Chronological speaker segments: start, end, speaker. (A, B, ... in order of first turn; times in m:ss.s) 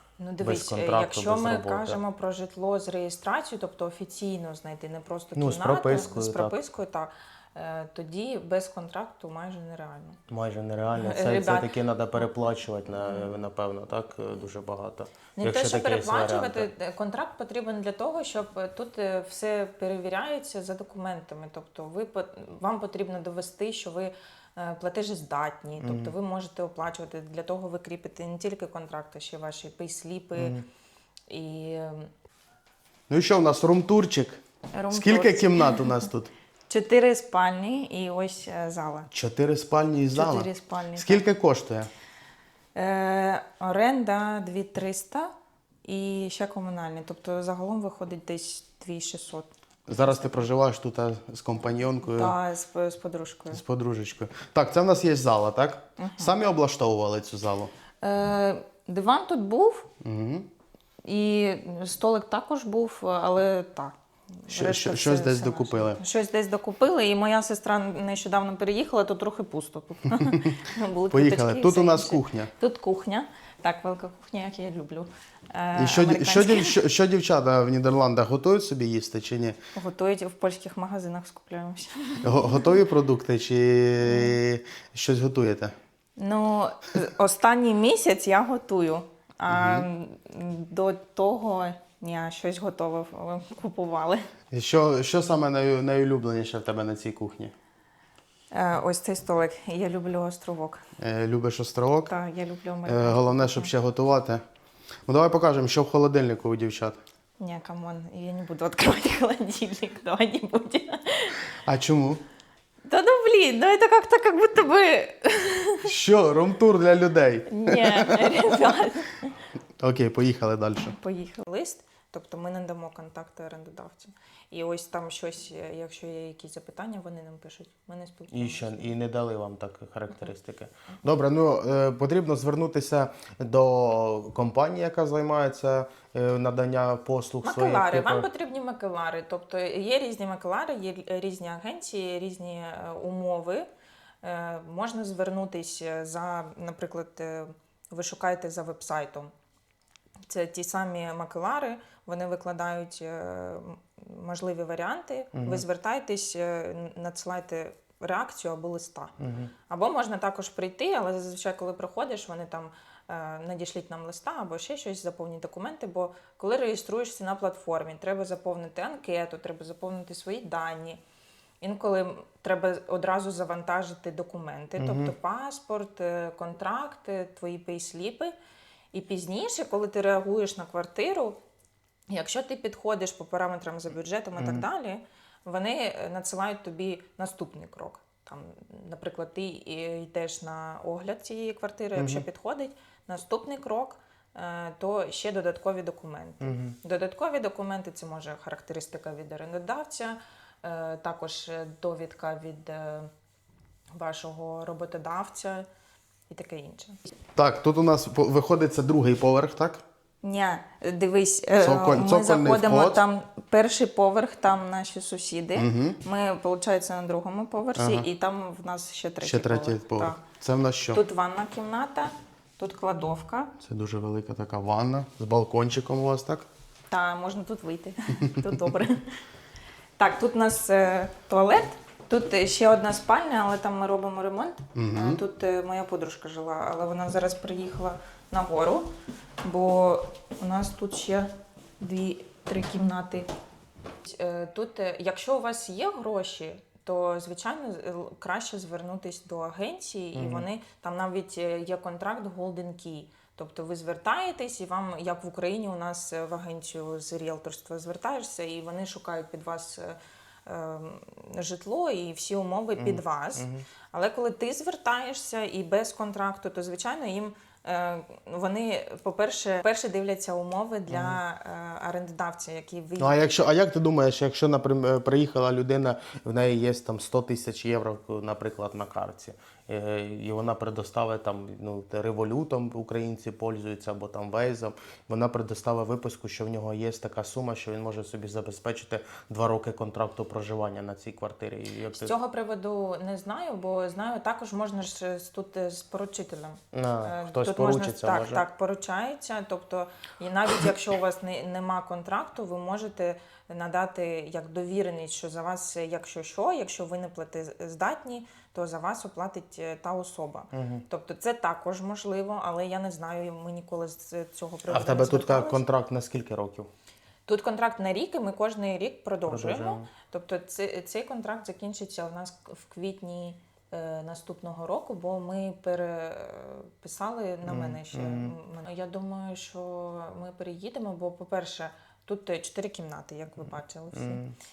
0:00.2-0:10.2 A
0:00.4-0:02.0 B
0:05.4-0:06.6 B
0:10.3-0:16.7 B
0:11.0-0:12.3 A
0:13.1-0:13.3 A
0:15.4-0:30.6 A
0:25.8-0:26.1 B
0:30.4-0:30.6 B
0:31.3-0:32.1 A
0:33.1-0:36.3 B
0:34.7-0:36.1 A
0:36.7-0:39.1 A
0:39.1-0:41.9 B
0:40.1-0:41.2 A
0:42.8-0:45.3 A
0:45.8-0:50.5 A
0:49.9-0:52.4 B
0:52.0-0:53.6 A
0:53.5-0:57.7 B
0:56.0-0:56.4 A
0:58.0-0:59.9 A
1:00.0-1:00.5 B
1:01.0-1:16.8 A
1:04.5-1:06.0 B
1:11.1-1:12.5 B
1:15.8-1:19.6 B
1:19.8-1:22.7 A
1:22.2-1:25.8 B
1:24.0-1:24.4 A
1:26.2-1:34.3 A
1:29.5-1:29.9 B
1:34.5-1:37.5 B
1:38.5-1:40.8 A
1:41.0-1:42.1 B
1:42.1-1:43.7 A
1:42.9-1:44.4 B
1:45.1-1:47.0 B
1:47.4-1:51.5 A
1:51.6-1:52.2 B
1:52.8-1:55.9 A
1:55.8-1:58.8 B
1:57.5-1:59.4 A
1:59.8-2:01.0 B
2:00.8-2:08.9 A
2:08.3-2:18.3 B
2:17.4-2:23.7 A
2:24.2-2:29.3 A
2:30.3-2:39.2 A
2:35.3-2:35.6 B
2:39.2-2:39.5 B
2:39.7-2:51.0 A
2:51.6-2:58.3 A
2:54.8-2:55.1 B
2:58.9-3:01.4 A
3:02.1-3:23.1 A
3:04.4-3:04.6 B
3:12.0-3:12.2 B
3:16.4-3:16.8 B
3:24.0-3:25.7 A
3:26.3-3:27.0 A
3:27.4-3:29.8 B
3:30.2-3:40.2 A
3:31.6-3:33.0 B
3:35.6-3:36.0 B
3:37.8-3:38.1 B
3:39.2-3:41.0 B
3:40.9-3:43.5 A
3:43.6-3:46.5 B
3:46.9-3:49.2 A
3:50.0-3:58.9 A
3:54.8-3:55.2 B
3:59.4-4:01.3 A
4:01.8-4:03.3 A
4:04.0-4:33.3 A
4:10.2-4:10.5 B
4:22.8-4:23.7 B
4:30.9-4:31.2 B
4:33.0-4:52.1 B
4:51.9-5:15.6 A
4:56.7-4:58.4 B
5:10.5-5:10.8 B
5:14.7-5:16.7 B
5:17.3-5:34.2 A
5:19.3-5:19.9 B
5:27.4-5:28.3 B
5:33.9-5:34.3 B